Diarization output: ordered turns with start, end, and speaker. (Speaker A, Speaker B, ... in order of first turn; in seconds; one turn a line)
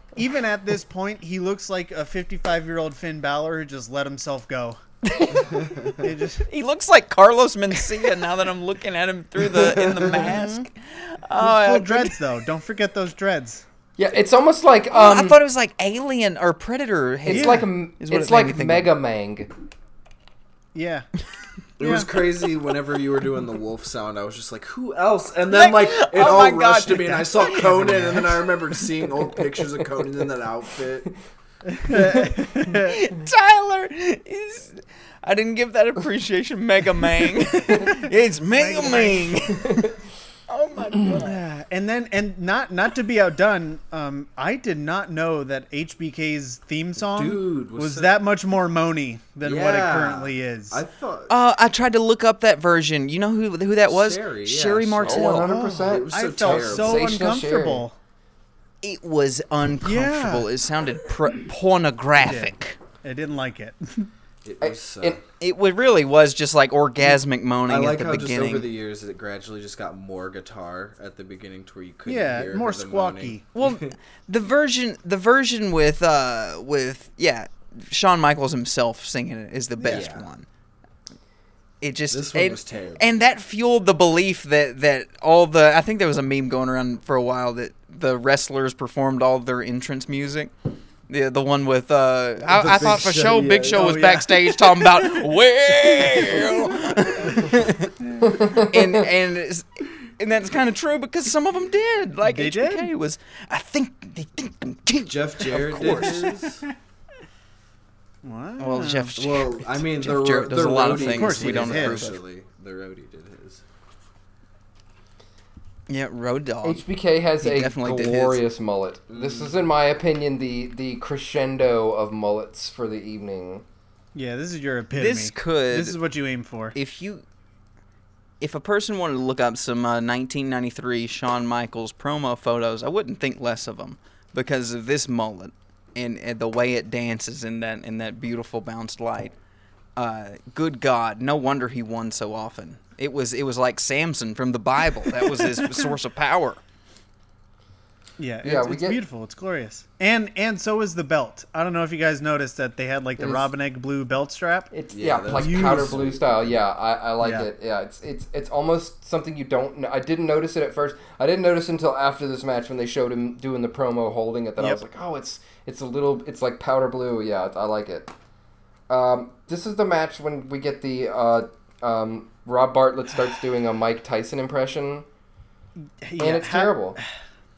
Speaker A: 0.1-4.8
Speaker B: 5.1-5.7
Speaker A: 5.9-6.5
Speaker B: 6.5-12.2
Speaker C: 9.5-10.1
Speaker A: 10.1-10.7
Speaker A: 11.4-13.6
Speaker C: 14.0-15.4
Speaker B: 14.9-18.9
Speaker C: 17.2-19.5
Speaker A: 17.3-17.7
Speaker A: 20.7-21.1
Speaker D: 21.8-31.1
Speaker A: 21.8-22.1
Speaker B: 25.5-28.2
Speaker A: 27.8-28.1
Speaker A: 31.7-33.0
Speaker B: 32.6-39.9
Speaker A: 38.5-39.4
Speaker B: 40.5-41.4
Speaker A: 41.0-50.8
Speaker D: 47.0-48.1
Speaker D: 49.4-51.4
Speaker B: 51.3-55.5
Speaker D: 53.9-55.3
Speaker C: 55.0-57.8
Speaker A: 55.2-58.0
Speaker D: 55.8-57.1
Speaker B: 58.8-62.8
Speaker A: 59.8-60.5
Speaker A: 62.2-64.1
Speaker D: 64.4-65.2
Speaker C: 64.6-65.2
Speaker B: 65.4-68.7
Speaker D: 67.0-73.9
Speaker A: 72.0-73.5
Speaker B: 73.5-80.5
Speaker A: 79.8-80.1
Speaker D: 79.9-80.3
Speaker B: 81.8-90.5
Speaker D: 82.1-83.1
Speaker B: 91.1-106.3
Speaker D: 92.5-93.9
Speaker A: 93.6-96.7
Speaker A: 97.2-98.3
Speaker C: 98.2-99.1
Speaker A: 102.2-102.9
Speaker D: 105.0-106.6
Speaker A: 108.2-109.2
Speaker B: 108.6-112.2
Speaker D: 109.2-113.6
Speaker A: 110.8-112.0
Speaker B: 115.9-116.8
Speaker C: 116.6-123.6
Speaker B: 117.4-118.4
Speaker D: 119.1-119.6
Speaker A: 124.1-126.7
Speaker B: 124.9-126.0
Speaker B: 126.7-127.2
Speaker B: 128.4-139.3
Speaker B: 139.9-146.6
Speaker A: 148.2-154.7
Speaker C: 148.4-149.0
Speaker C: 153.2-153.5
Speaker C: 154.7-168.1
Speaker D: 154.9-156.6
Speaker A: 155.3-156.0
Speaker A: 157.2-157.5
Speaker C: 168.9-175.1
Speaker A: 176.0-177.0
Speaker C: 176.2-177.0